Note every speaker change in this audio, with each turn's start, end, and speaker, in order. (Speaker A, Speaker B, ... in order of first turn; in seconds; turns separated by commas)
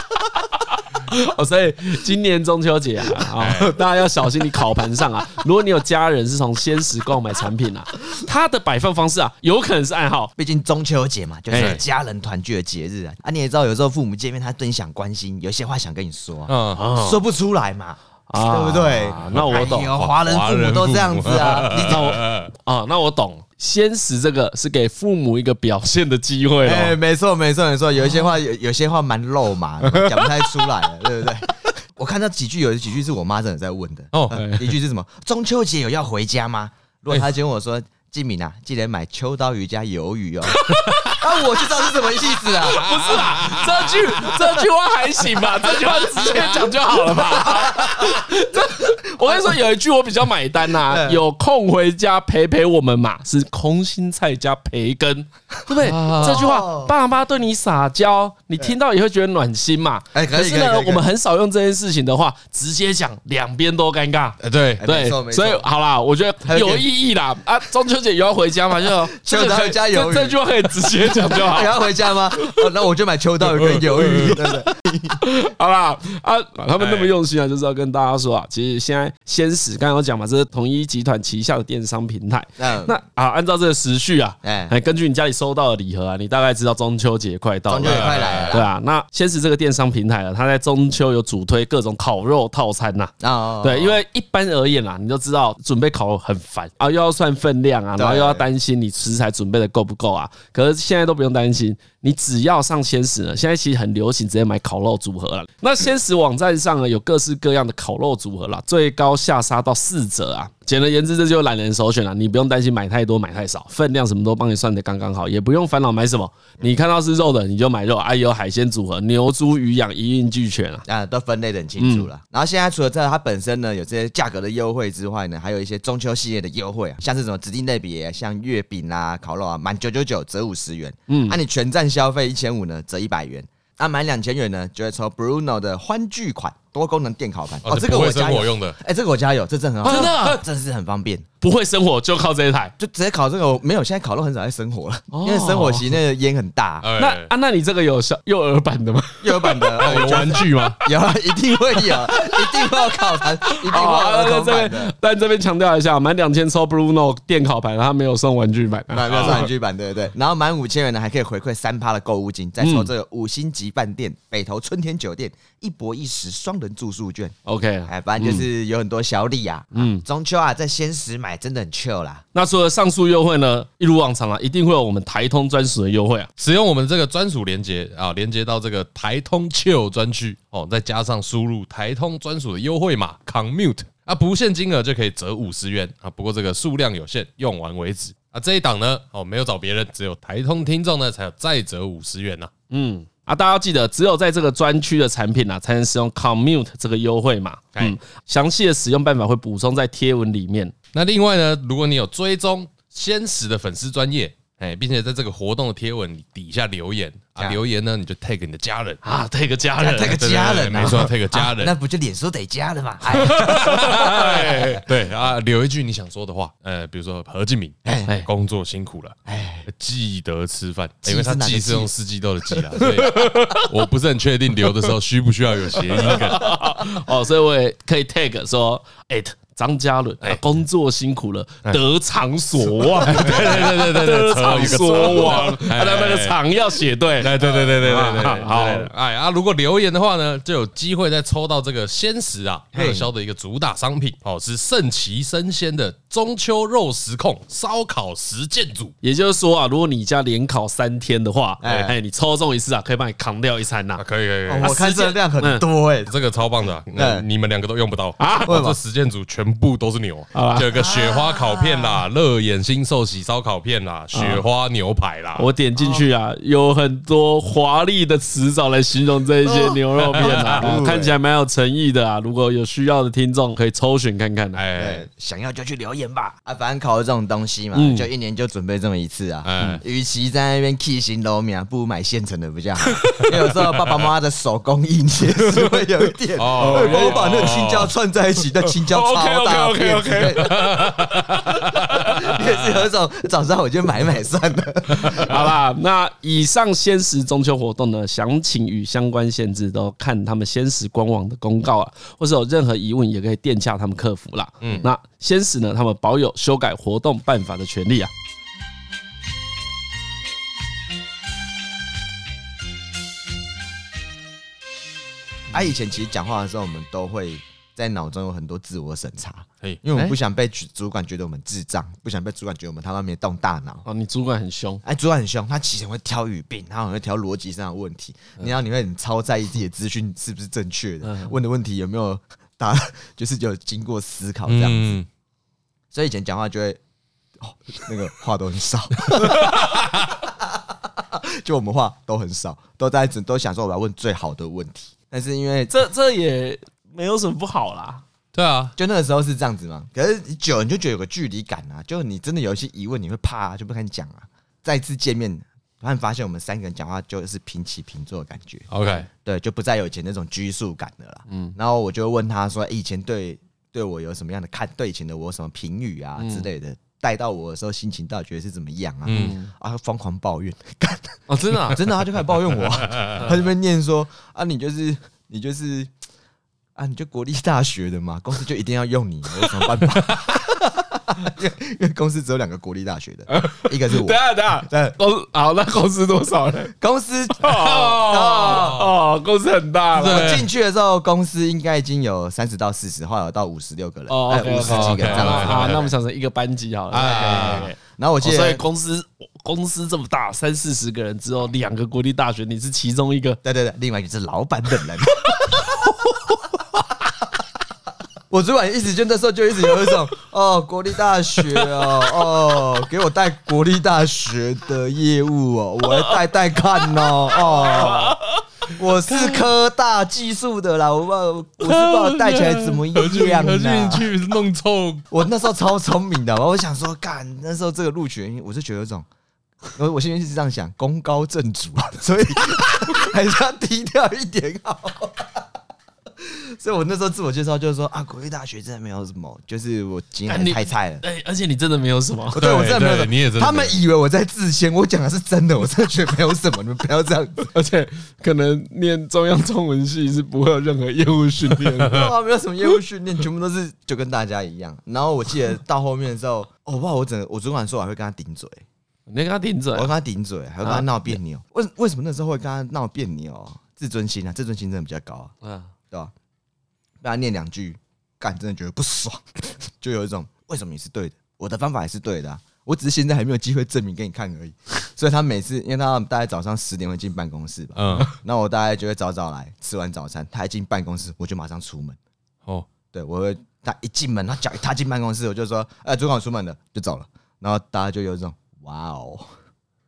Speaker A: 1.0-10.3, Speaker B: 3.4-3.8, Speaker C: 10.4-22.2, Speaker A: 11.5-11.8, Speaker B: 11.6-11.8, Speaker B: 16.5-16.8, Speaker A: 16.8-17.2, Speaker A: 18.3-19.9, Speaker B: 19.3-22.5, Speaker A: 21.7-27.0, Speaker C: 26.6-43.2, Speaker A: 29.8-30.4, Speaker B: 34.1-34.5, Speaker A: 34.3-34.7, Speaker A: 40.5-71.8, Speaker B: 42.8-44.5, Speaker B: 45.8-46.4, Speaker C: 48.9-49.6, Speaker C: 50.8-51.2, Speaker B: 55.8-56.5, Speaker C: 56.2-56.9, Speaker C: 60.1-61.0, Speaker B: 64.4-64.9, Speaker C: 64.8-65.7, Speaker C: 66.5-66.9, Speaker C: 69.1-75.2, Speaker B: 73.5-74.4, Speaker A: 75.2-120.8, Speaker B: 76.8-77.1, Speaker C: 82.6-83.0, Speaker C: 84.4-84.7, Speaker C: 87.7-88.7, Speaker B: 87.8-88.6, Speaker C: 93.2-94.0, Speaker C: 98.0-98.5, Speaker C: 120.9-141.3, Speaker A: 121.8-122.1, Speaker A: 131.1-131.4, Speaker B: 137.7-138.8, Speaker B: 139.8-140.3, Speaker A: 139.8-140.4, Speaker A: 141.4-142.7, Speaker C: 142.8-146.9, Speaker A: 145.1-145.9, Speaker B: 146.8-147.3, Speaker A: 147.0-149.8, Speaker C: 149.2-154.9, Speaker B: 149.8-150.8, Speaker A: 151.8-152.8, Speaker A: 153.4-159.5, Speaker C: 158.9-167.3, Speaker B: 159.1-159.4, Speaker A: 162.6-162.9, Speaker A: 167.4-168.4, Speaker C: 167.9-172.2, Speaker A: 169.7-170.1, Speaker A: 172.3-176.3, Speaker B: 176.4-192.5, Speaker A: 192.7-200.7, Speaker B: 200.9-209.0, Speaker A: 209.0-210.2, Speaker C: 209.8-214.8, Speaker B: 210.1-211.7, Speaker A: 213.1-214.8, Speaker B: 213.2-219.2, Speaker C: 217.8-218.1, Speaker C: 219.3-219.7, Speaker B: 219.7-226.8, Speaker C: 221.0-221.9, Speaker C: 222.7-223.0, Speaker A: 222.8-223.7, Speaker A: 225.9-238.9, Speaker B: 232.9-236.4, Speaker C: 234.9-235.4, Speaker B: 237.2-248.9, Speaker C: 237.4-237.8, Speaker C: 242.7-243.1, Speaker A: 249.0-254.0, Speaker C: 251.6-251.9, Speaker B: 254.0-254.8, Speaker C: 254.5-256.1, Speaker A: 254.6-255.7, Speaker B: 256.1-265.5, Speaker C: 256.9-257.2, Speaker A: 258.2-258.6, Speaker C: 258.5-258.8, Speaker A: 260.3-260.7, Speaker C: 260.7-262.0, Speaker A: 264.1-264.4, Speaker A: 265.4-274.6, Speaker C: 265.8-266.1, Speaker B: 270.0-270.7, Speaker C: 270.2-271.1, Speaker B: 274.6-275.1, Speaker C: 274.8-295.5, Speaker A: 277.7-278.1, Speaker B: 279.4-279.8, Speaker B: 283.0-284.1, Speaker A: 285.5-285.8, Speaker B: 286.4-287.9, Speaker A: 286.6-287.3, Speaker A: 288.7-290.6, Speaker B: 290.2-292.5, Speaker B: 295.0-295.3, Speaker A: 295.1-308.1, Speaker C: 315.5-323.9, Speaker A: 323.9-324.8, Speaker C: 324.8-335.0, Speaker A: 331.0-331.3, Speaker B: 334.5-335.1, Speaker C: 335.9-336.8, Speaker C: 337.4-345.7, Speaker B: 339.2-339.7, Speaker A: 339.3-339.6, Speaker A: 345.7-348.0, Speaker B: 348.3-348.7, Speaker C: 348.8-375.9, Speaker B: 358.7-359.1, Speaker A: 361.3-361.6, Speaker A: 366.2-366.5, Speaker B: 369.1-369.4, Speaker A: 369.1-369.5, Speaker A: 371.3-371.8, Speaker B: 372.9-373.2, Speaker C: 376.8-384.9, Speaker A: 383.3-386.7, Speaker C: 386.8-388.9, Speaker A: 387.4-390.4, Speaker B: 387.6-388.9, Speaker B: 389.9-390.5, Speaker C: 390.1-395.9, Speaker A: 394.1-403.4, Speaker B: 394.6-395.9, Speaker B: 396.9-397.7, Speaker C: 396.9-398.6, Speaker C: 403.4-405.6, Speaker C: 408.3-424.1, Speaker A: 415.9-416.2, Speaker A: 416.8-418.4, Speaker B: 421.6-425.1, Speaker C: 425.1-429.1, Speaker C: 429.8-435.4, Speaker C: 436.2-441.0, Speaker A: 440.3-442.4, Speaker C: 442.3-447.5, Speaker B: 442.4-443.8, Speaker A: 447.5-452.1, Speaker C: 451.9-458.6, Speaker A: 459.1-459.9, Speaker C: 459.8-465.3, Speaker A: 460.6-461.2, Speaker A: 465.4-465.7, Speaker C: 467.0-482.0, Speaker B: 477.8-478.1, Speaker C: 482.9-489.3